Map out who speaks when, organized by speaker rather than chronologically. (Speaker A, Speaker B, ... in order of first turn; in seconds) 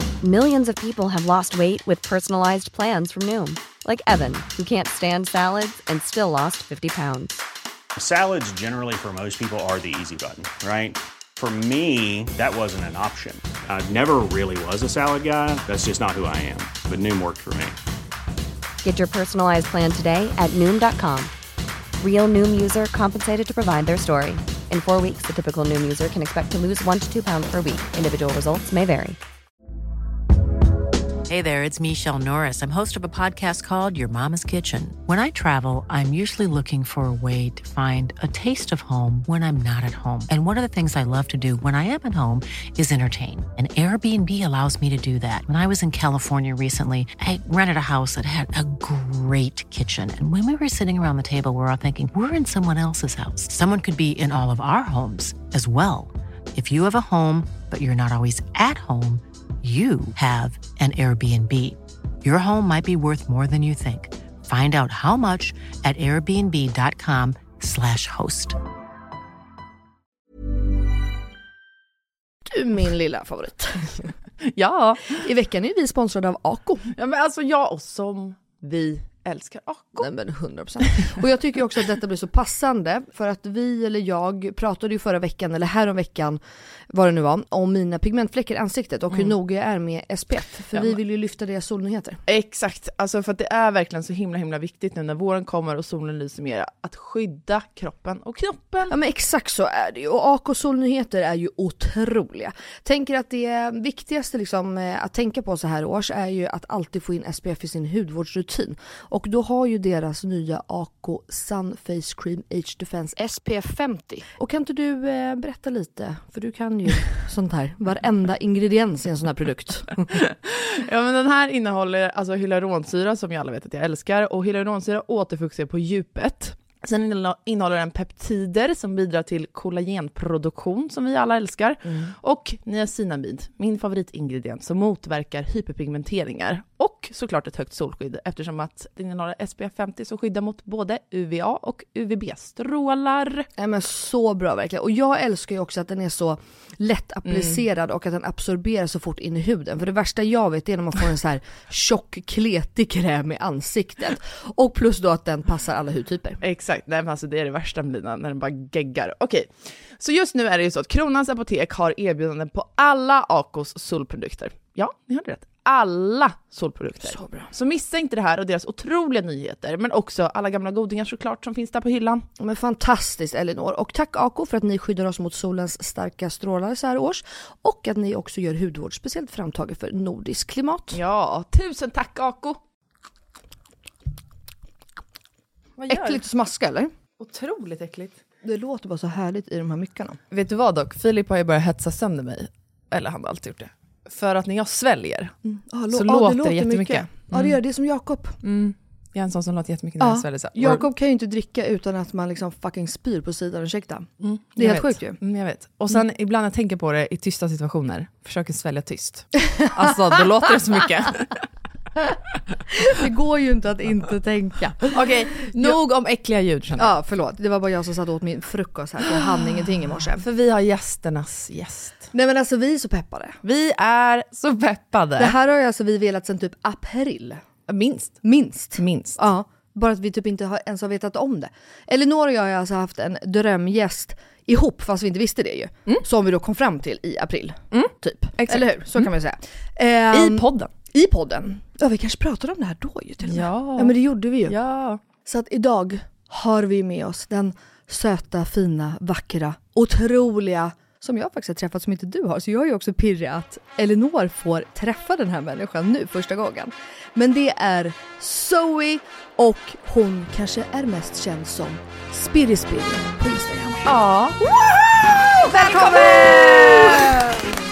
Speaker A: 0.2-7.4, 18.8-21.3, 22.0-29.2
Speaker B: 8.0-17.8
Speaker C: 31.3-68.6
Speaker D: 72.4-74.1, 75.1-76.9, 80.0-86.4, 86.9-92.2, 98.9-120.1, 143.6-156.4, 167.1-167.5, 172.4-181.0, 185.9-186.9, 188.4-190.2, 195.4-198.4, 200.0-205.2, 212.7-215.8, 216.8-220.2, 222.1-223.4, 225.2-227.4, 228.2-244.6, 245.2-263.9, 265.4-267.3
Speaker E: 74.4-75.2, 76.9-80.1, 92.3-98.9, 120.1-143.5, 147.3-147.6, 156.4-172.3, 180.9-182.6, 185.8-186.2, 187.2-188.2, 190.3-195.3, 195.9-197.6, 198.4-200.8, 204.2-211.3, 214.9-216.9, 219.0-222.1, 223.4-225.3, 227.7-228.2, 228.8-229.2, 237.7-239.1, 240.1-240.7, 243.2-245.0, 263.8-264.9, 265.4-267.2